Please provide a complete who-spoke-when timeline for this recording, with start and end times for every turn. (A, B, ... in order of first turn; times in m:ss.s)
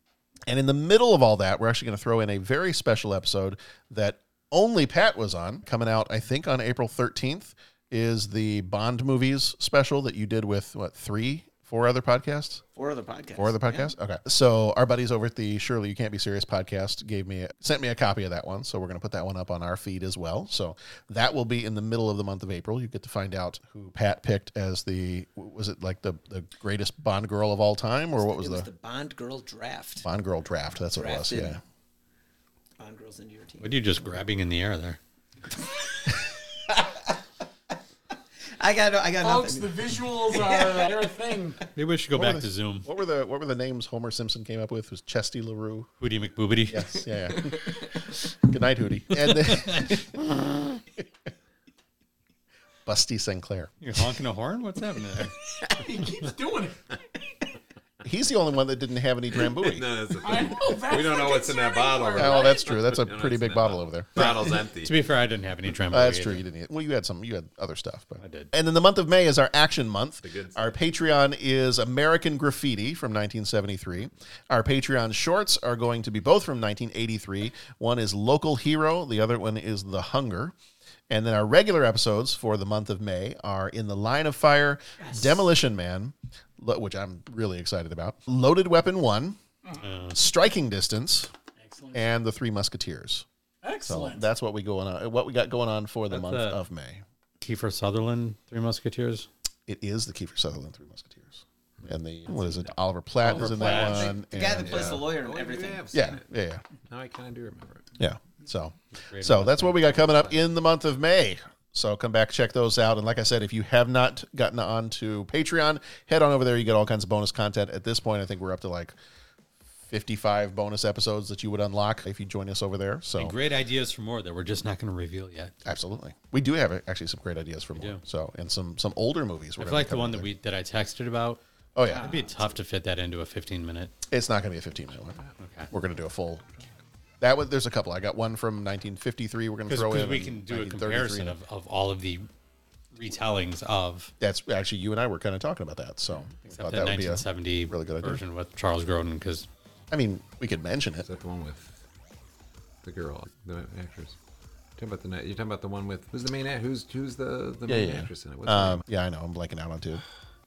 0:00.5-0:12.6 A
0:12.8-0:13.9 B
0:13.4-0:28.7 A
0:28.2-0:30.0 B
0:30.0-0:31.6 A
0:31.0-0:31.6 B
0:32.8-0:34.1 B
0:33.6-0:35.0 C
0:36.7-0:36.9 B
0:38.6-0:40.8 B
0:39.2-0:41.6 D
0:41.7-0:42.9 C
0:42.1-0:45.9 A
0:46.0-0:47.0 C
0:46.7-0:47.7 A
0:48.4-0:51.0 A
0:49.4-0:49.9 C
0:52.8-0:53.7 A
0:53.8-0:55.3 C
0:55.7-0:56.9 D
0:58.0-0:59.9 A
0:59.5-1:05.0 E
1:00.2-1:02.8 D
1:02.1-1:04.5 A
1:04.8-1:06.4 C
1:05.9-1:20.5 A
1:08.2-1:08.5 C
1:10.2-1:10.8 E
1:21.1-1:29.4 A
1:29.8-1:30.2 C
1:30.1-1:31.3 A
1:31.6-1:32.1 D
1:31.9-1:33.2 A
1:33.6-1:34.2 D
1:33.8-1:37.0 A
1:36.1-1:36.6 C
1:37.4-1:39.3 C
1:39.7-1:45.0 A
1:43.3-1:45.9 B
1:43.3-1:44.1 C
1:44.6-1:46.2 E
1:45.9-1:46.6 A
1:46.9-1:47.9 E
1:48.0-1:58.9 A
1:49.0-1:50.0 C
1:50.0-1:50.4 E
1:59.9-2:03.4 A
2:03.1-2:05.5 C
2:05.6-2:10.3 A
2:07.8-2:08.0 C
2:09.6-2:11.4 C
2:11.8-2:12.1 A
2:11.8-2:12.5 B
2:11.9-2:13.9 C
2:14.1-2:15.2 A
2:15.4-2:15.7 C
2:15.7-2:16.4 A
2:17.2-2:21.4 A
2:19.7-2:22.3 C
2:22.9-2:24.1 C
2:24.2-2:28.2 A
2:26.4-2:29.5 C
2:29.9-2:31.1 A
2:31.0-2:31.8 E
2:32.8-2:34.2 E
2:34.8-2:38.8 E
2:37.6-2:40.0 A